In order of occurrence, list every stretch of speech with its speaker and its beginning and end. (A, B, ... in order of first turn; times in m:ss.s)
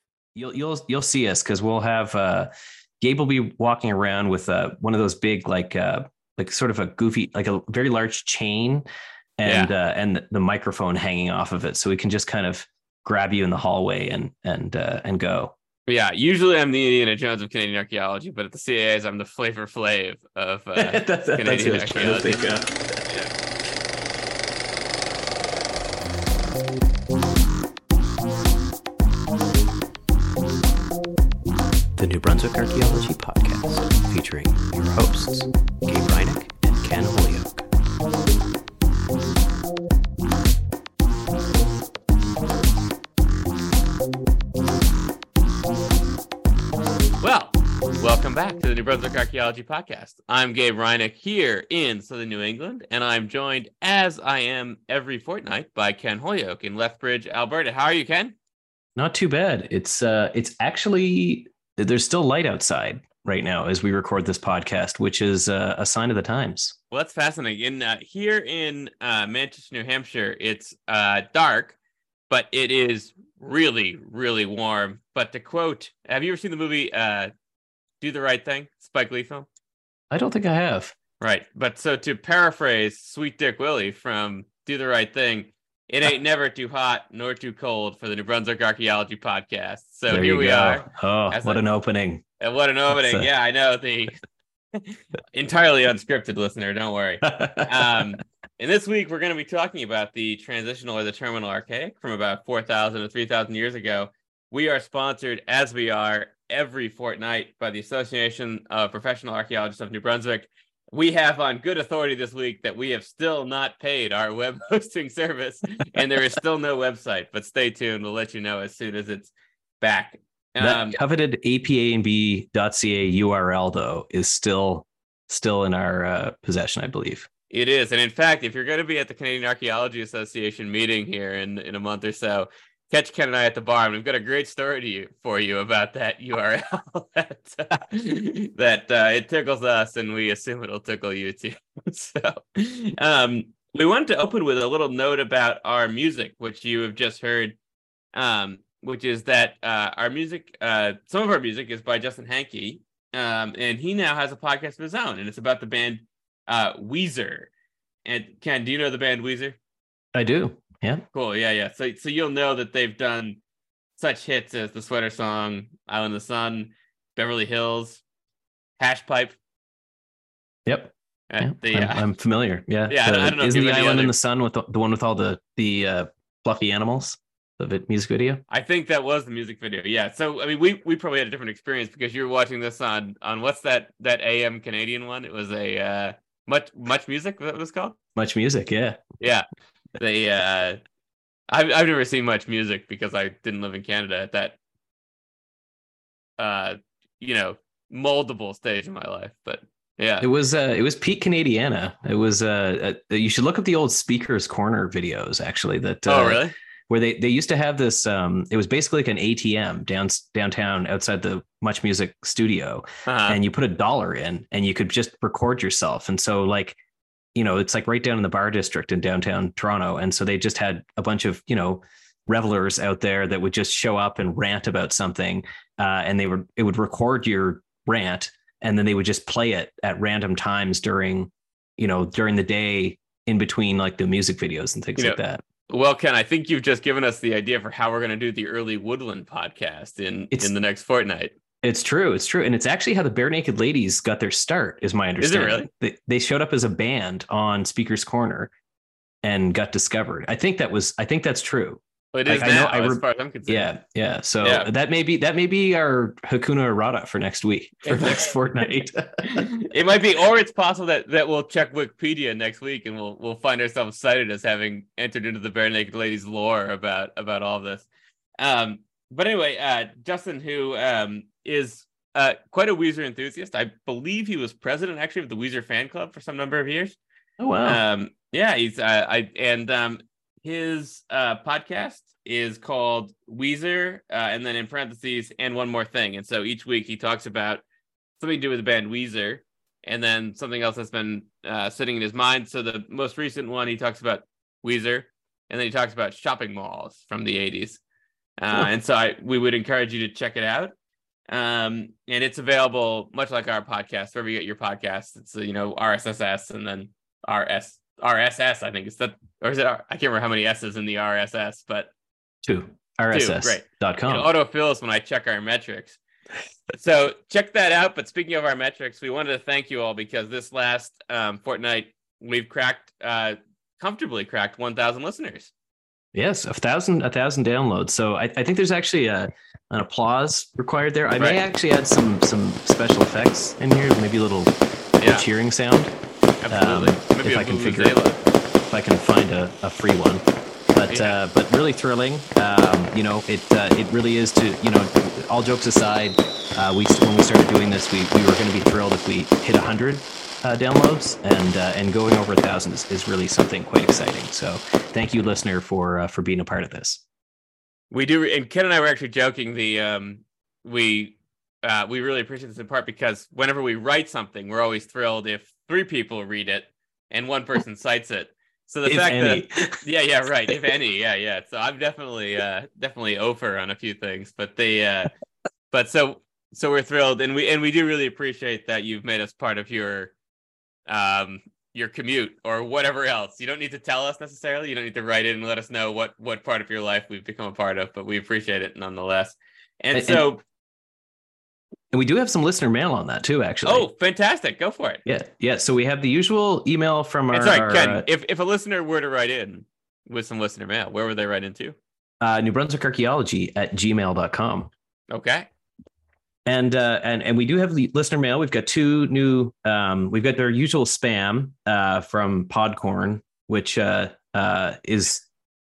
0:00.3-0:08.8 A
0:09.4-0:15.5 A
0:09.4-0:09.7 B
0:15.9-0:23.3 B
0:20.8-0:22.7 A
0:32.0-0:37.6 C
0:47.2-0:58.3 B
0:59.0-1:06.7 A
1:06.9-1:11.8 B
1:12.3-1:17.3 B
1:18.0-1:19.5 B
1:20.1-1:20.9 A
1:21.2-1:31.6 B
1:30.1-1:32.2 A
1:32.4-1:34.2 B
1:32.9-1:33.3 A
1:34.7-2:01.0 B
1:37.2-1:38.0 A
2:00.6-2:07.3 A
2:07.5-2:27.6 B
2:28.1-2:37.5 B
2:38.0-2:39.6 B
2:40.1-2:41.0 A
2:41.1-2:43.4 B
2:44.0-2:48.0 B
2:48.8-2:49.4 B
2:50.6-2:58.4 A
2:51.3-2:52.0 B
2:52.9-2:54.1 B
2:58.5-3:08.0 B
3:08.2-3:09.0 A
3:09.2-3:09.4 B
3:10.0-3:10.8 B
3:11.5-3:14.6 B
3:16.4-3:20.3 B
3:20.2-3:36.8 A
3:26.1-3:26.5 B
3:33.0-3:33.4 B
3:37.3-3:55.4 A
3:55.0-4:01.3 B
4:01.6-4:08.5 A
4:05.2-4:05.7 B
4:09.2-4:19.5 A
4:12.1-4:13.7 B
4:14.4-4:14.7 B
4:17.8-4:18.3 B
4:19.2-4:27.9 B
4:28.4-4:37.0 B
4:37.4-4:37.8 A
4:37.6-4:47.6 B
4:48.2-4:57.8 B
4:58.4-5:00.7 B
5:01.3-5:11.9 B
5:12.4-5:14.3 A
5:13.1-5:16.0 B
5:16.7-5:25.5 B
5:26.1-5:35.9 A
5:31.1-5:31.4 B
5:35.0-5:35.2 B
5:36.4-5:38.2 B
5:36.5-5:38.0 A
5:38.7-5:57.0 A
5:40.9-5:41.2 B
5:57.9-6:15.1 B
6:08.8-6:09.8 A
6:15.7-6:20.1 B
6:20.9-6:30.4 B
6:29.9-6:30.3 A
6:31.9-6:33.9 A
6:33.6-6:35.0 B
6:35.0-6:38.0 A
6:37.3-6:41.8 B
6:42.2-6:44.7 A
6:45.1-6:45.5 B
6:46.4-6:55.2 A